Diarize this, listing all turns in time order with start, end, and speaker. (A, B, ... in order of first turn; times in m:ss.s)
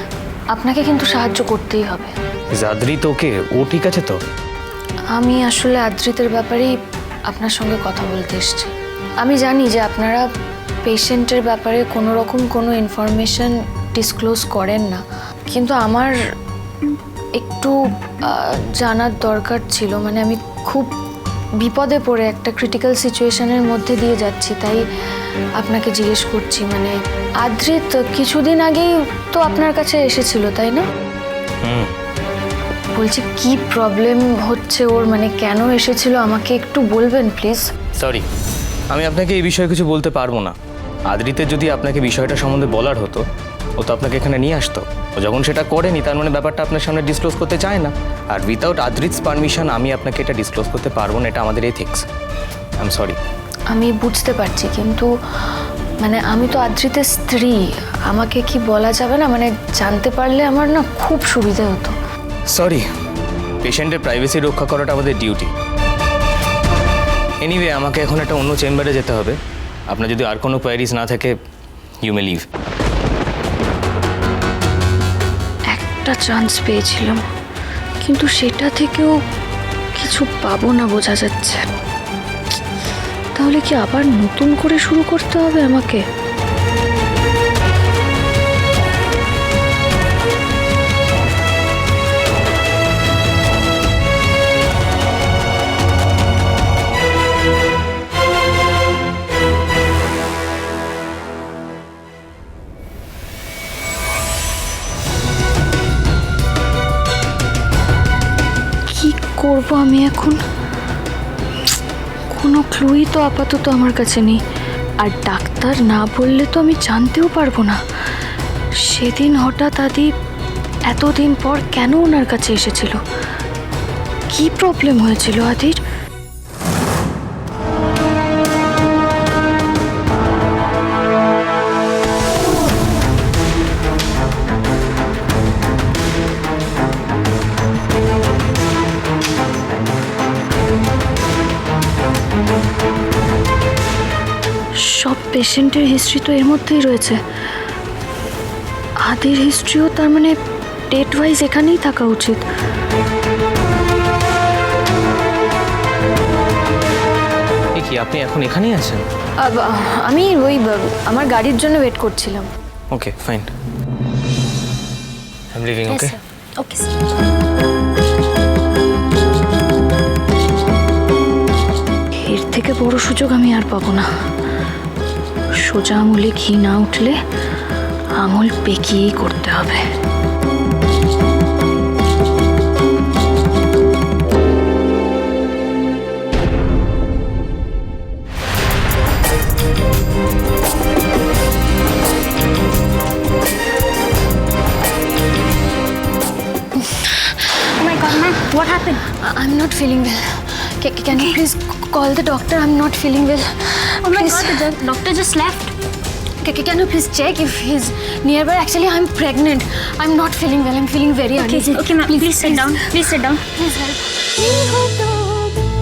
0:00.5-0:02.1 A
0:02.5-0:04.2 B
0:05.1-0:06.8 A
0:07.3-0:10.2 A
0:10.8-0:16.1 A
0:17.4-0:17.8 A
0:18.3-0:20.9 A
0:21.6-0:24.8 A
0:25.6-0:30.9 A
0:31.6-0:31.9 B
0:33.0-0:37.6 A
0:38.0-0:38.2 B
0:38.9-0:40.6 B
0:41.1-0:43.2 B
0:43.8-0:52.0 B
0:52.8-0:53.2 B
0:53.7-0:55.1 A
0:56.0-1:02.0 A
1:02.5-1:02.9 B
1:03.6-1:05.5 B
1:07.4-1:09.4 B
1:09.9-1:11.3 B
1:12.0-1:12.5 B
1:15.7-1:17.2 A
1:18.0-1:19.2 A
1:20.0-1:21.6 A
1:23.4-1:26.0 A
1:48.9-1:50.4 A
1:52.3-1:54.4 A
1:55.0-1:57.8 A
1:58.8-2:00.1 A
2:00.9-2:03.0 A
2:04.3-2:05.8 A
2:24.8-2:27.2 A
2:29.0-2:30.4 A
2:30.9-2:32.4 A
2:37.8-2:39.1 B
2:39.4-2:42.5 A
2:42.9-2:43.5 B
2:45.5-2:46.2 B
2:45.9-2:46.9 C
2:52.2-2:54.1 A
2:55.6-2:57.2 A
2:58.2-2:59.9 A
3:17.6-3:19.0 C
3:19.0-3:24.8 A
3:24.0-3:25.7 C
3:26.4-3:33.0 A
3:31.4-3:33.4 C
3:33.6-3:35.2 A